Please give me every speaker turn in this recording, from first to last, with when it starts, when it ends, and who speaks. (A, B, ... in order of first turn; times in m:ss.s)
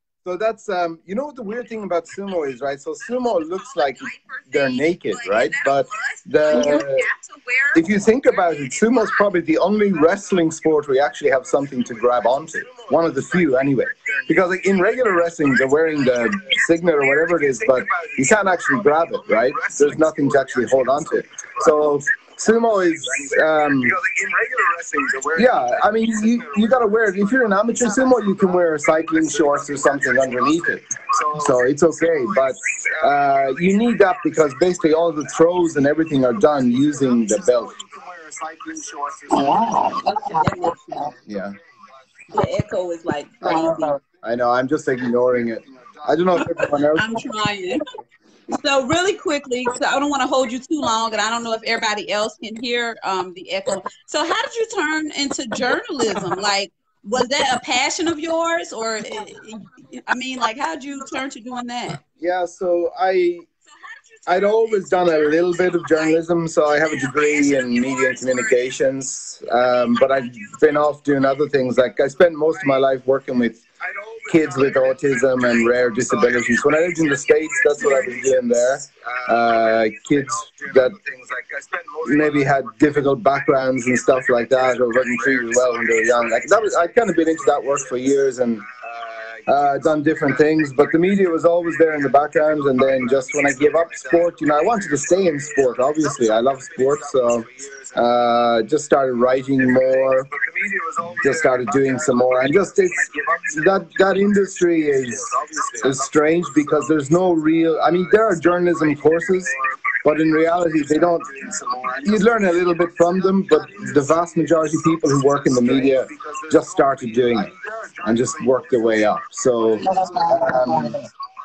0:00.2-0:07.0 A
0:03.2-0:09.3 B
0:07.8-0:24.0 A
0:12.6-0:13.2 C
0:14.2-0:16.5 C
0:17.2-0:20.7 C
0:23.2-0:27.3 C
0:25.4-0:30.8 A
0:29.1-0:31.5 C
0:31.4-0:37.7 A
0:36.8-0:39.7 C
0:39.4-0:41.1 B
0:41.3-0:41.6 A
0:42.3-0:44.0 B
0:44.2-0:47.0 A
0:46.5-0:47.8 B
0:48.5-1:02.0 B
1:02.2-1:03.5 A
1:03.7-1:08.6 B
1:04.3-1:13.6 A
1:09.9-1:10.6 B
1:13.8-1:18.3 C
1:14.3-1:21.0 A
1:19.5-1:22.7 C
1:22.0-1:28.6 A
1:24.4-1:26.5 C
1:29.5-1:40.3 A
1:32.6-1:35.0 C
1:36.0-1:38.0 C
1:40.2-1:44.4 C
1:41.2-1:45.3 A
1:45.0-1:46.1 C
1:45.8-1:51.3 A
1:49.5-1:50.0 C
1:51.1-1:54.2 C
1:52.0-1:57.5 A
1:55.3-1:58.8 C
1:58.0-2:01.0 A
2:00.0-2:00.8 C